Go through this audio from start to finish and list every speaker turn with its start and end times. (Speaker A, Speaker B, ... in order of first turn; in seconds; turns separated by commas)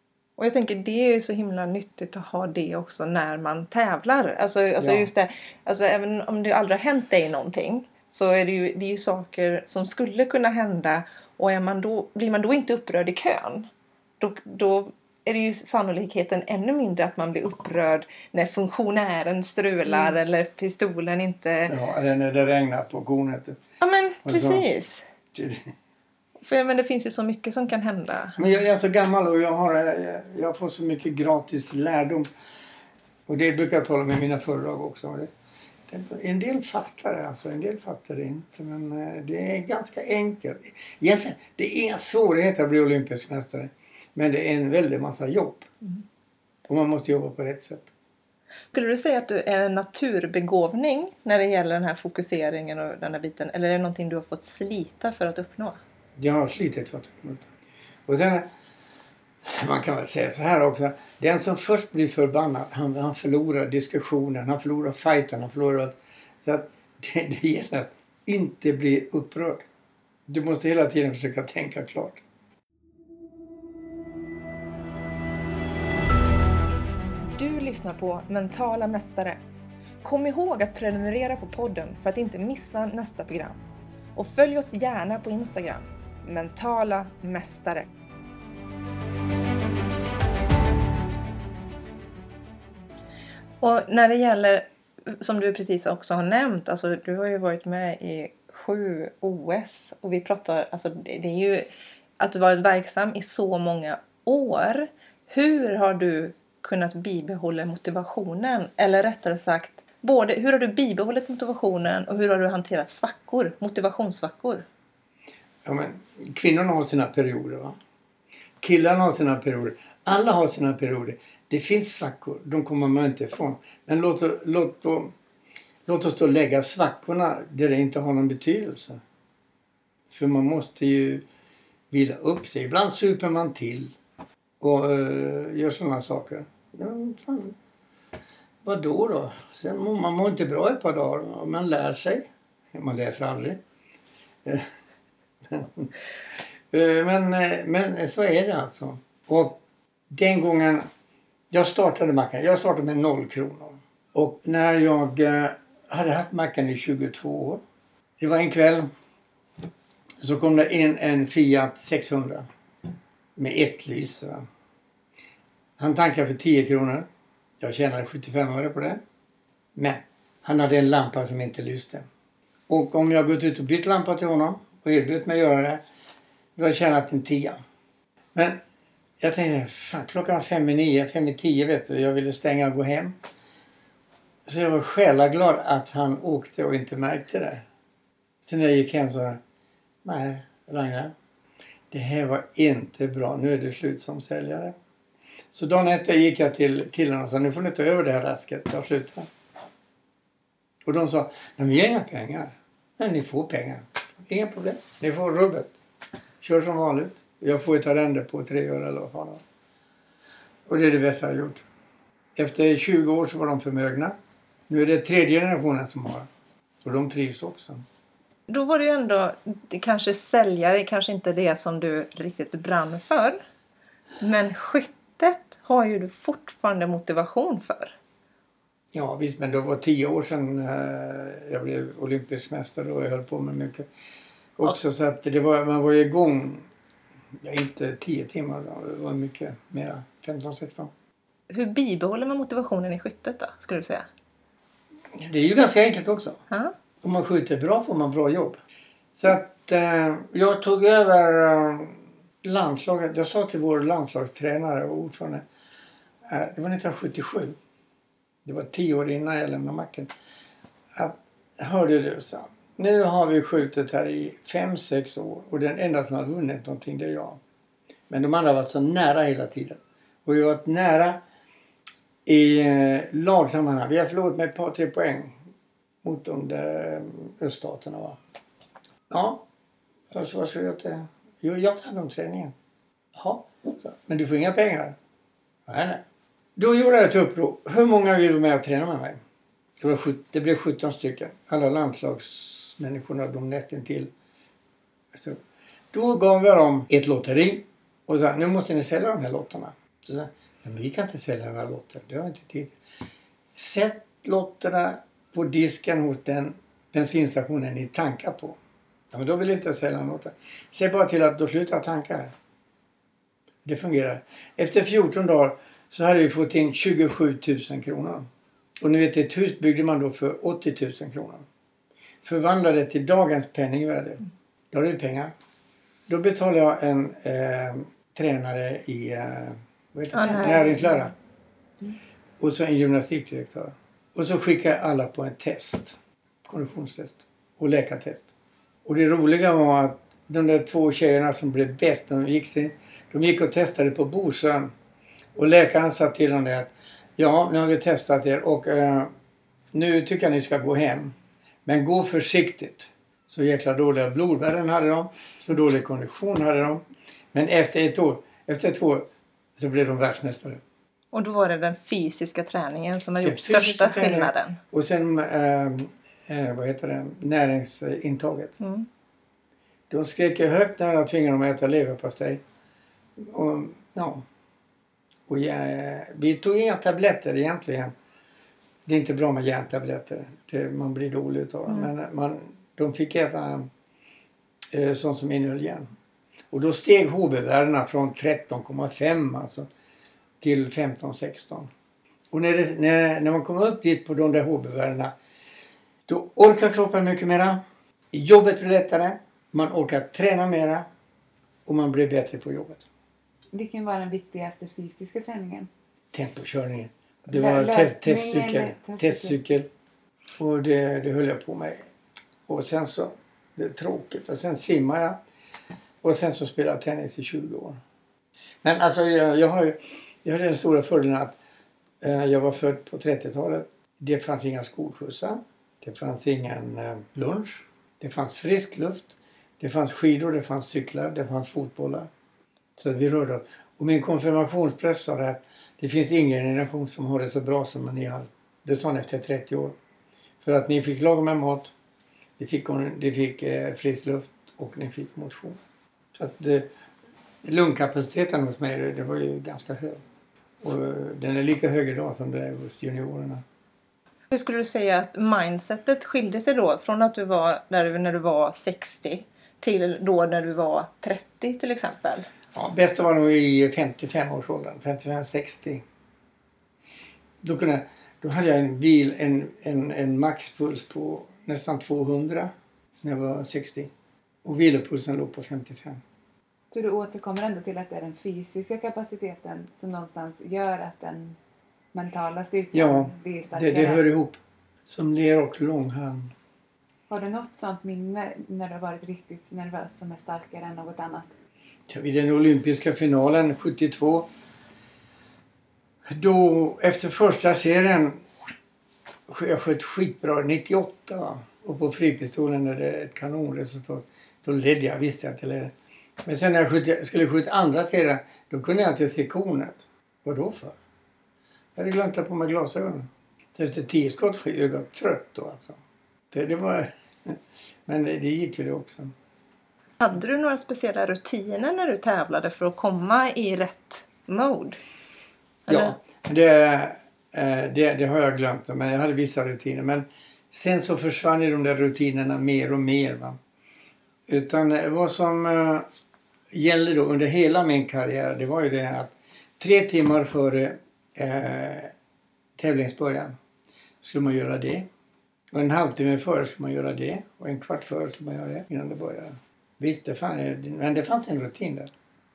Speaker A: 0.4-13.7, Speaker B: 4.8-5.1, Speaker A: 14.2-21.7, Speaker B: 21.7-23.6, Speaker A: 23.8-25.0, Speaker B: 24.2-24.6, Speaker B: 25.3-25.7, Speaker A: 26.4-28.4, Speaker B: 28.4-32.3, Speaker B: 33.3-35.3, Speaker B: 35.9-45.7, Speaker B: 46.7-47.9, Speaker A: 48.7-55.8, Speaker B: 56.2-57.5, Speaker B: 58.1-58.5, Speaker B: 59.5-69.7, Speaker B: 70.3-72.2, Speaker A: 77.2-79.4, Speaker A: 80.0-83.6, Speaker A: 84.1-87.9, Speaker A: 93.6-101.7, Speaker A: 102.2-114.6, Speaker B: 115.6-117.8, Speaker B: 118.6-125.1, Speaker B: 125.9-129.0, Speaker B: 130.1-131.2, Speaker B: 131.9-133.9, Speaker B: 134.6-137.6, Speaker B: 138.6-143.6, Speaker B: 145.5-145.9, Speaker B: 146.7-150.9, Speaker B: 151.5-157.6, Speaker B: 158.2-158.9, Speaker B: 160.2-162.5, Speaker B: 163.4-164.4, Speaker B: 165.8-167.1, Speaker B: 167.6-169.0, Speaker B: 169.8-172.1, Speaker B: 172.7-175.8, Speaker B: 176.6-177.6, Speaker B: 178.3-178.6, Speaker B: 179.2-183.2, Speaker B: 184.4-187.6, Speaker B: 188.4-189.4, Speaker B: 190.0-191.1, Speaker B: 191.9-194.7, Speaker B: 195.5-199.3, Speaker B: 200.8-205.8, Speaker B: 206.4-209.4, Speaker B: 210.7-211.6, Speaker B: 212.3-214.2, Speaker B: 214.7-216.3, Speaker B: 216.8-217.8, Speaker A: 218.5-223.4, Speaker A: 224.2-227.9, Speaker B: 228.9-233.8, Speaker B: 234.6-236.7, Speaker B: 237.4-240.9, Speaker A: 241.5-244.1, Speaker B: 245.2-246.4, Speaker B: 247.0-248.6, Speaker B: 249.2-255.4, Speaker B: 256.3-257.6, Speaker B: 258.4-260.1, Speaker B: 260.9-267.4, Speaker B: 268.1-271.2, Speaker B: 272.2-275.4, Speaker B: 276.0-278.2, Speaker B: 279.1-279.4, Speaker B: 280.1-282.5, Speaker B: 283.1-284.9, Speaker B: 285.7-286.0, Speaker B: 286.6-289.2, Speaker B: 289.8-294.1, Speaker B: 295.1-295.4, Speaker B: 295.9-302.8, Speaker B: 303.5-308.6, Speaker B: 309.1-312.3, Speaker B: 313.6-318.3, Speaker B: 318.8-321.4, Speaker B: 322.2-325.3, Speaker B: 326.1-331.1, Speaker A: 330.1-331.0, Speaker C: 330.4-330.8, Speaker B: 332.4-338.2, Speaker B: 338.8-344.7, Speaker B: 345.3-349.1, Speaker B: 349.7-351.1, Speaker B: 351.6-356.8, Speaker B: 357.3-359.1, Speaker B: 359.6-360.6, Speaker A: 361.1-364.6, Speaker B: 363.2-368.5, Speaker A: 368.6-368.9, Speaker B: 369.9-372.4, Speaker B: 373.2-374.2, Speaker B: 375.3-377.9, Speaker B: 378.9-383.7, Speaker B: 384.7-385.9, Speaker B: 386.5-389.7, Speaker B: 390.4-391.7, Speaker B: 392.3-395.1, Speaker B: 396.1-397.6, Speaker B: 398.1-400.9, Speaker B: 401.6-402.8, Speaker C: 403.5-405.7, Speaker B: 406.1-409.7, Speaker C: 407.3-409.4, Speaker B: 410.4-411.8, Speaker B: 412.5-415.2, Speaker B: 416.0-417.8, Speaker B: 418.6-421.4, Speaker B: 422.0-432.1, Speaker B: 432.8-439.7, Speaker B: 440.4-441.7, Speaker B: 442.4-445.6, Speaker B: 446.1-446.7, Speaker B: 447.4-450.0, Speaker B: 450.6-453.4, Speaker A: 454.3-462.3, Speaker B: 462.5-465.8, Speaker B: 467.4-473.9, Speaker B: 474.4-476.0, Speaker C: 476.7-481.4, Speaker C: 481.9-484.0, Speaker B: 482.7-486.3, Speaker C: 487.1-491.3, Speaker B: 491.9-494.3, Speaker B: 496.0-498.2, Speaker B: 499.3-505.7, Speaker B: 506.2-510.8, Speaker B: 511.8-515.8, Speaker B: 516.3-519.1, Speaker A: 520.0-524.8, Speaker A: 525.7-525.9, Speaker B: 525.7-533.4, Speaker B: 534.3-535.9, Speaker B: 536.5-541.9, Speaker B: 542.6-543.3, Speaker B: 544.0-544.9, Speaker B: 545.5-551.9